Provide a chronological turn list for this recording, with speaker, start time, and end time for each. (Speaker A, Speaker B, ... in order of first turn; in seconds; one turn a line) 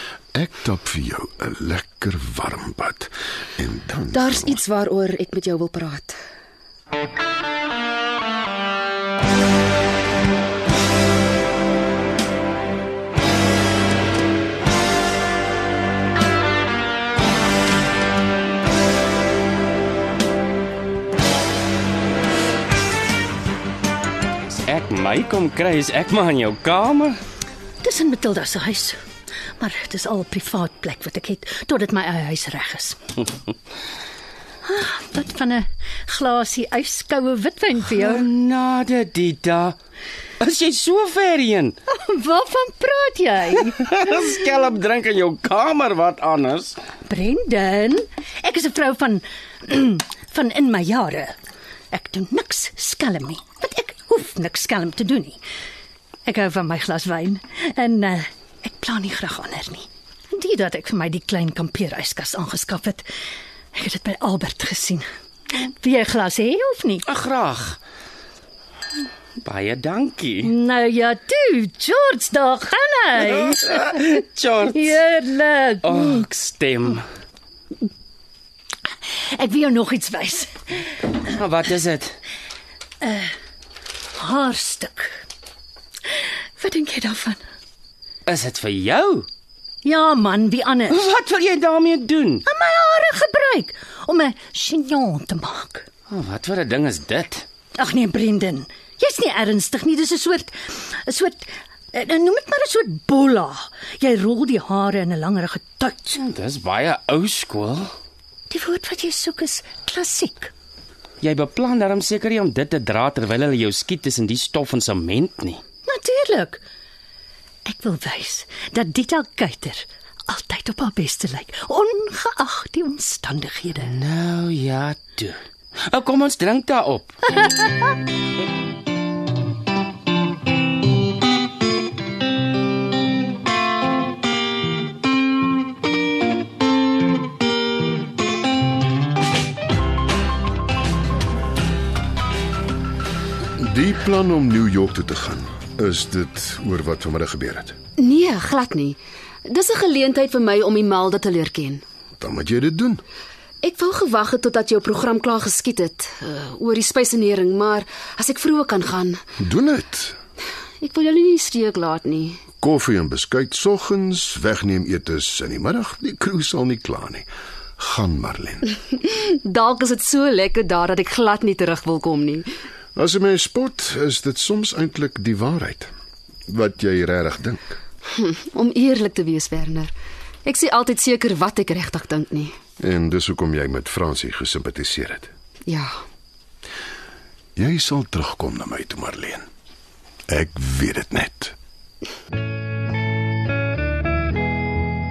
Speaker A: 0.3-4.6
Speaker B: 4.1-6.2
Speaker C: 24.5-27.2
Speaker D: 27.8-29.0
Speaker D: 29.6-33.0
Speaker D: 34.6-38.3
Speaker C: 37.9-39.8
Speaker C: 40.4-41.8
Speaker D: 41.9-44.0
Speaker C: 43.8-46.8
Speaker D: 47.1-51.4
Speaker D: 51.9-55.4
Speaker D: 56.2-63.0
Speaker D: 63.7-67.0
Speaker C: 67.0-67.8
Speaker C: 69.4-70.5
Speaker D: 70.4-74.0
Speaker C: 73.3-75.0
Speaker D: 74.7-76.2
Speaker C: 75.8-77.0
Speaker D: 79.1-80.8
Speaker C: 81.3-82.2
Speaker D: 83.0-83.3
Speaker D: 84.2-85.1
Speaker D: 86.6-87.4
Speaker C: 88.3-89.3
Speaker D: 89.8-91.0
Speaker C: 90.9-92.4
Speaker D: 92.5-95.9
Speaker C: 96.1-97.5
Speaker D: 97.8-106.2
Speaker C: 106.2-107.9
Speaker D: 108.5-110.5
Speaker C: 111.2-115.6
Speaker D: 115.9-116.6
Speaker D: 117.7-123.9
Speaker C: 123.8-127.2
Speaker A: 143.6-147.8
Speaker B: 148.0-151.8
Speaker A: 152.2-153.0
Speaker B: 153.6-159.2
Speaker A: 159.4-160.2
Speaker B: 160.8-162.4
Speaker A: 162.6-168.7
Speaker B: 169.0-172.5
Speaker A: 173.0-175.9
Speaker A: 176.5-177.8
Speaker B: 178.2-179.9
Speaker B: 180.5-182.5
Speaker A: 182.8-185.3
Speaker B: 185.7-185.9
Speaker A: 187.6-189.5
Speaker A: 190.3-191.6